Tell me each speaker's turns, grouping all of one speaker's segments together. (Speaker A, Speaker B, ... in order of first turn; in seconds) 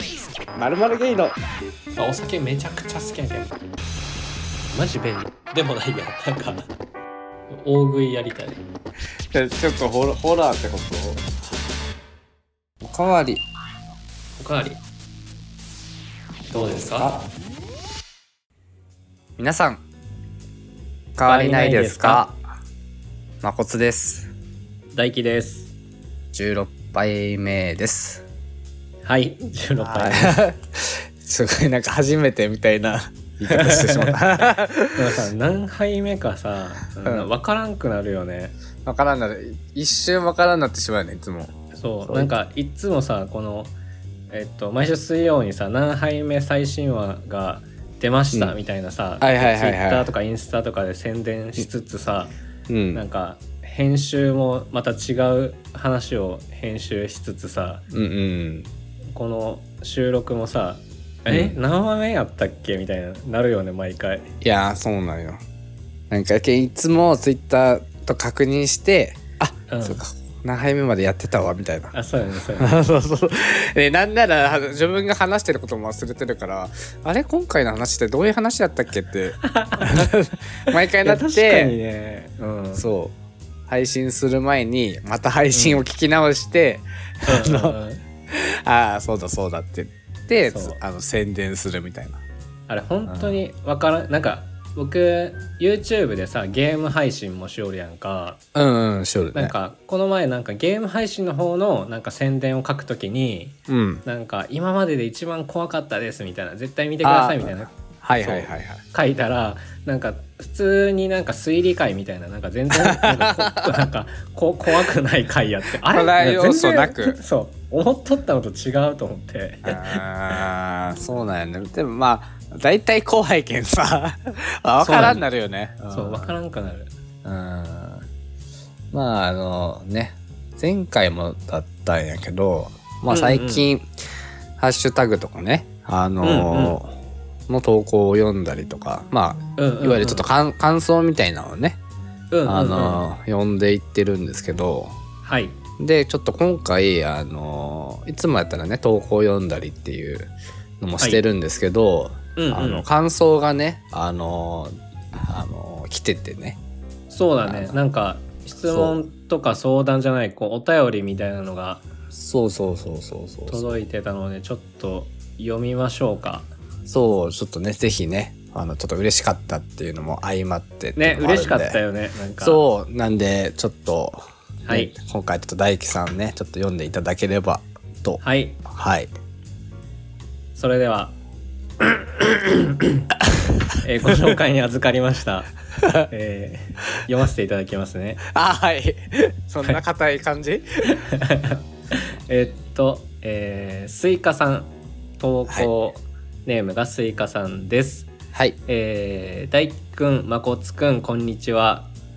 Speaker A: 0.5-1.4, 9.3-11.3, 12.8-13.4, 19.4-19.8, 21.2-22.4, 23.4-24.3, 26.3-28.2, 29.8-35.3, 38.8-41.5, 42.1-42.3, 49.2-50.1, 52.7-53.0, 57.9-58.7, 61.3-61.5, 64.4-65.4, 66.1-71.9, 72.6-81.8, 82.7-83.2, 83.7-87.8, 88.3-92.2, 93.1-93.4, 98.5-99.5, 103.7-104.0, 107.0-108.8, 112.8-113.8, 115.9-117.2, 119.6-126.3, 127.2-128.0, 128.9-133.9, 134.6-136.9, 137.5-141.8, 142.4-144.9, 145.8-156.6, 157.4-157.8, 158.7-159.0, 162.1-163.7, 166.8-171.8, 172.4-179.1, 184.1-184.3, 185.8-186.1, 188.2-191.0
Speaker B: 1.9-3.5, 4.7-6.7, 7.5-8.6, 14.4-14.8, 16.5-17.2, 21.2-22.2, 24.9-25.7, 29.0-30.4, 33.5-34.2, 35.0-38.5, 41.7-43.7, 44.3-52.3, 52.9-57.8, 59.1-64.3, 69.7-70.0, 71.9-72.8, 79.4-80.2, 80.9-82.9, 85.5-85.8, 87.3-88.0, 90.5-90.8, 92.7-98.4, 99.3-120.0, 124.8-125.2, 125.9-126.9, 133.1-133.7, 136.2-136.8, 139.6-140.3, 142.3-143.1, 145.2-145.6, 152.3-152.9, 157.1-161.8, 163.5-166.5, 170.9-172.6, 174.6-174.9, 178.2-178.6, 180.5-181.1, 181.8-183.1, 183.8-185.5, 186.1-188.2, 190.9-198.1, 198.7-201.9